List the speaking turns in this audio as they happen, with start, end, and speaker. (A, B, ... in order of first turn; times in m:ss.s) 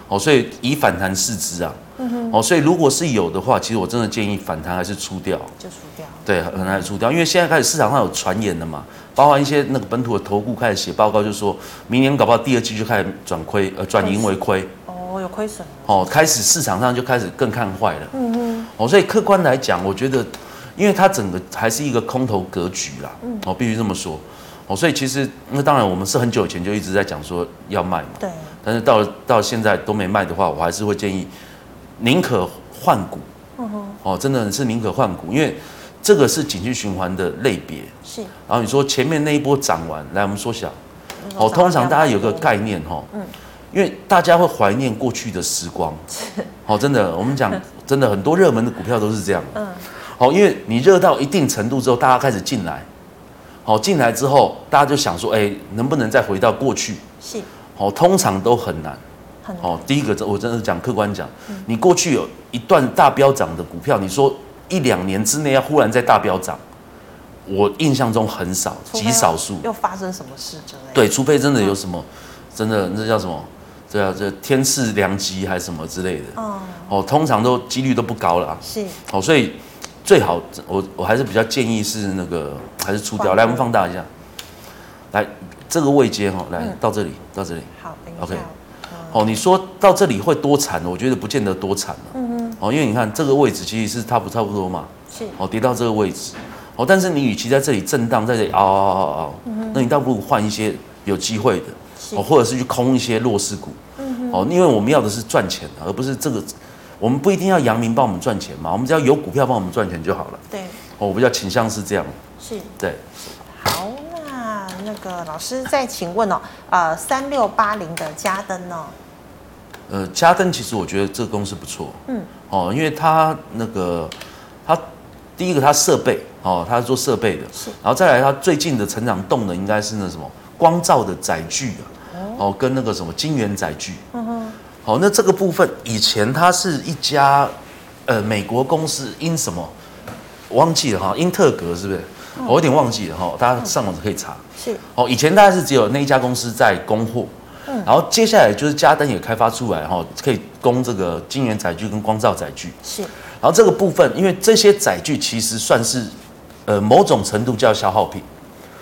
0:00.1-0:05.5 A
0:02.0-0:02.4 B
0:05.6-0:06.9 B
0:06.2-0:14.7 A
0:14.0-0:16.3 B
0:15.9-0:18.1 A
0:18.1-0:18.7 B
0:18.6-0:31.3 A
0:23.2-0:23.5 B
0:28.2-0:28.6 B
0:32.0-0:33.3 A
0:33.6-0:34.0 B
0:34.0-0:37.9 A
0:38.0-0:38.3 B
0:38.5-0:40.8 A
0:41.2-0:42.6 B
0:41.4-0:43.1 A
0:43.7-0:46.1 A
0:46.6-0:52.9 A
0:49.5-0:49.9 B
0:53.6-0:57.0 A
0:57.2-0:57.5 B
0:57.8-0:59.0 A
0:59.4-0:59.9 B
0:59.6-1:06.6 A
1:07.5-1:09.6 A
1:08.9-1:11.8 B
1:10.9-1:16.4 A
1:16.4-1:16.9 B
1:16.9-1:24.1 A
1:18.6-1:19.0 B
1:23.2-1:23.7 B
1:25.1-1:28.5 A
1:27.8-1:29.4 B
1:29.1-1:43.8 A
1:32.1-1:32.6 B
1:35.1-1:35.4 B
1:39.5-1:39.9 B
1:42.0-1:42.3 B
1:44.0-1:44.5 B
1:44.3-1:50.4 A
1:50.5-1:50.8 B
1:51.0-1:52.2 A
1:52.4-1:52.8 B
1:52.8-1:53.0 A
1:53.4-1:59.0 B
1:59.9-2:04.2 A
2:05.4-2:14.0 A
2:12.1-2:12.4 B
2:14.1-2:14.6 B
2:14.8-2:17.5 A
2:18.1-2:19.7 A
2:20.5-2:27.3 A
2:24.6-2:24.8 B
2:27.8-2:32.8 A
2:32.8-2:33.1 B
2:33.4-2:36.1 A
2:36.7-2:38.3 A